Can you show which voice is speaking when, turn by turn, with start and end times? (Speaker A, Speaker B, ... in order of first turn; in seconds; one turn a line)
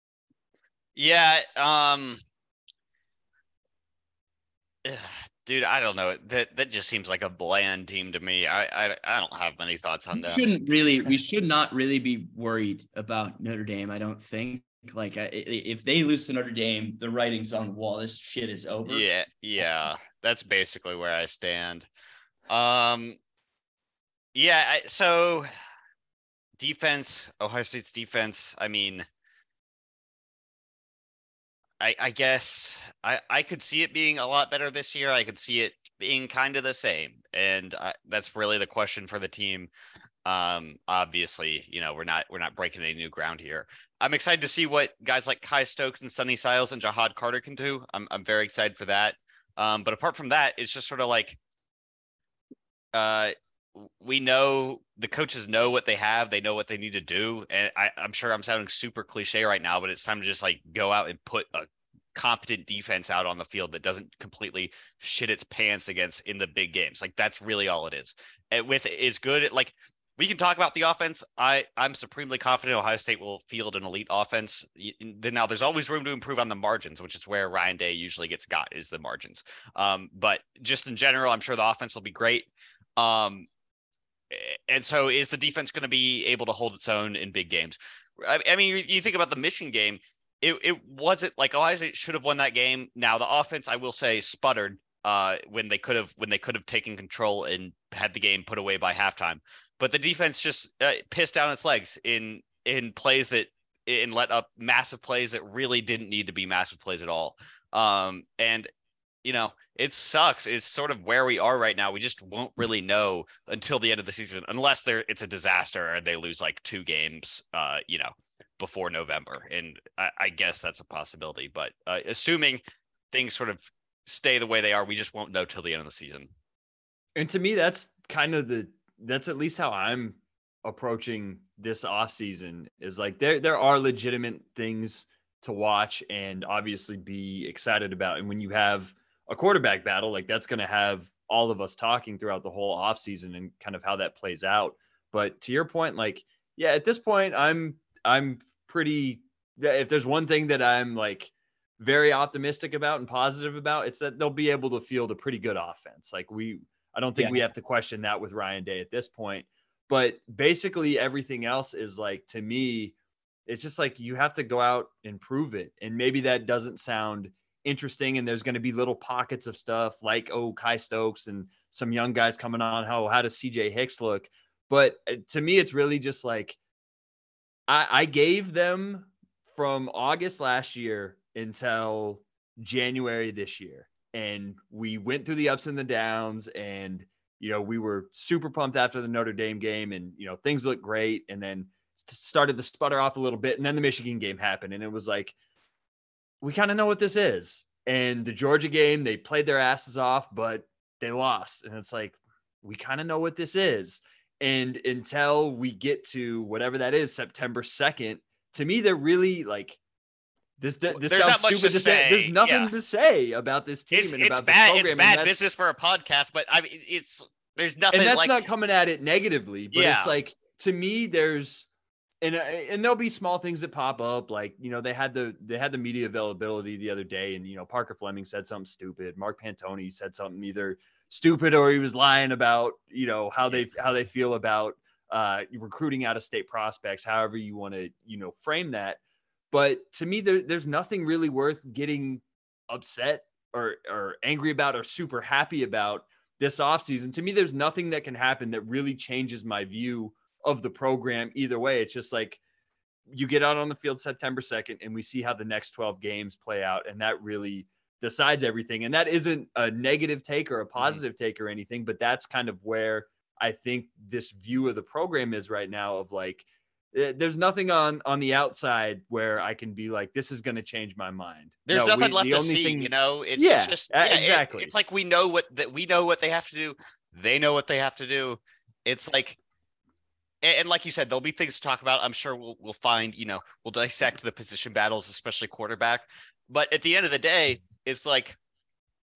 Speaker A: 0.9-2.2
Speaker A: 4.8-10.4
Speaker B: 10.2-19.1
Speaker A: 18.9-21.9
Speaker A: 22.5-23.2
Speaker A: 24.4-25.4
Speaker A: 26.6-29.0
Speaker A: 31.8-39.7
Speaker A: 40.2-51.4
Speaker A: 52.9-83.5
Speaker A: 84.3-108.7
Speaker A: 109.2-122.6
Speaker A: 123.1-126.3
Speaker C: 127.2-162.9
Speaker B: 157.2-157.4
Speaker C: 163.5-176.6
Speaker C: 177.7-195.4
Speaker C: 196.4-209.8
Speaker C: 210.6-215.3
Speaker A: 210.9-212.7
Speaker A: 213.9-218.5
Speaker C: 217.9-221.7
Speaker A: 219.7-220.1
Speaker C: 222.2-239.0
Speaker C: 239.5-252.4
Speaker C: 253.1-274.7
Speaker A: 271.7-279.4
Speaker A: 280.4-288.4